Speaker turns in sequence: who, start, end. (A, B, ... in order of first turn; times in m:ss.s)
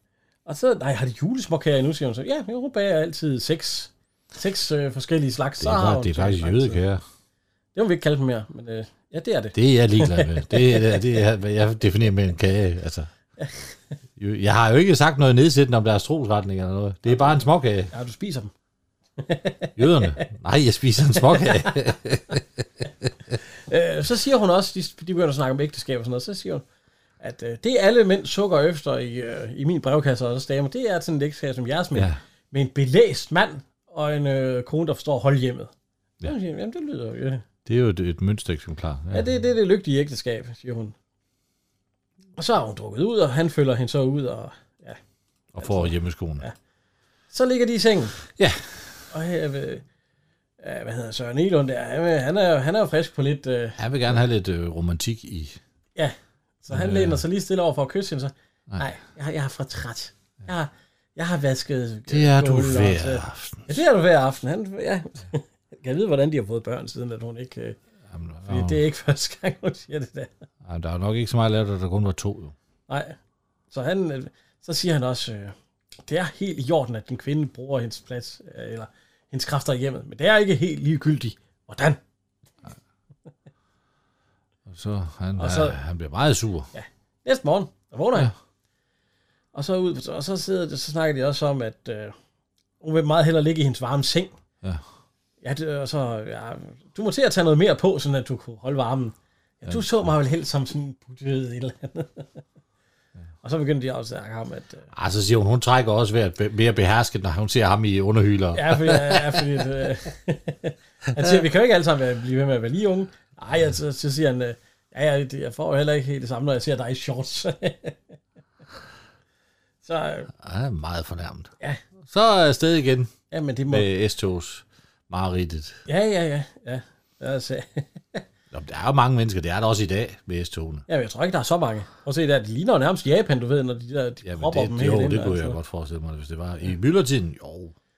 0:00.4-0:06.8 A
0:05.6-0:07.0 B
0:07.7-0:11.0 A
0:09.6-0:13.1 B
0:13.4-0:13.7 A
0:14.2-0:17.9 B
0:17.1-0:18.5 A
0:19.2-0:20.3 A
0:19.8-0:23.1 B
0:21.3-0:21.9 A
0:23.7-0:26.6 A
0:27.2-0:35.7 A
0:36.2-0:37.4 A
0:37.7-0:39.3 B
0:39.1-0:41.0 A
0:42.4-0:45.0 A
0:45.5-0:46.5 B
0:45.6-0:46.6 A
0:47.3-0:48.2 A
0:48.4-0:49.0 B
0:49.1-0:49.8 A
0:50.6-0:53.8 A
0:53.8-0:55.6 B
0:56.0-1:07.8 A
0:56.7-0:57.2 B
1:02.1-1:03.7 B
1:08.1-1:08.8 B
1:08.4-1:10.3 A
1:10.6-1:12.6 B
1:12.9-1:13.2 A
1:13.7-1:22.0 A
1:24.7-1:26.7 B
1:25.4-1:25.8 A
1:26.7-1:28.3 A
1:29.5-1:32.1 A
1:32.8-1:34.3 A
1:35.4-1:42.4 A
1:39.7-1:40.0 B
1:43.4-1:44.9 A
1:44.9-1:49.6 B
1:48.5-1:58.0 A
1:51.2-1:51.4 B
1:59.8-2:00.3 A
2:00.4-2:01.5 B
2:02.0-2:03.1 B
2:03.3-2:03.9 A
2:03.7-2:05.8 B
2:05.9-2:08.2 A
2:08.5-2:10.9 B
2:10.9-2:15.6 A
2:14.2-2:17.7 B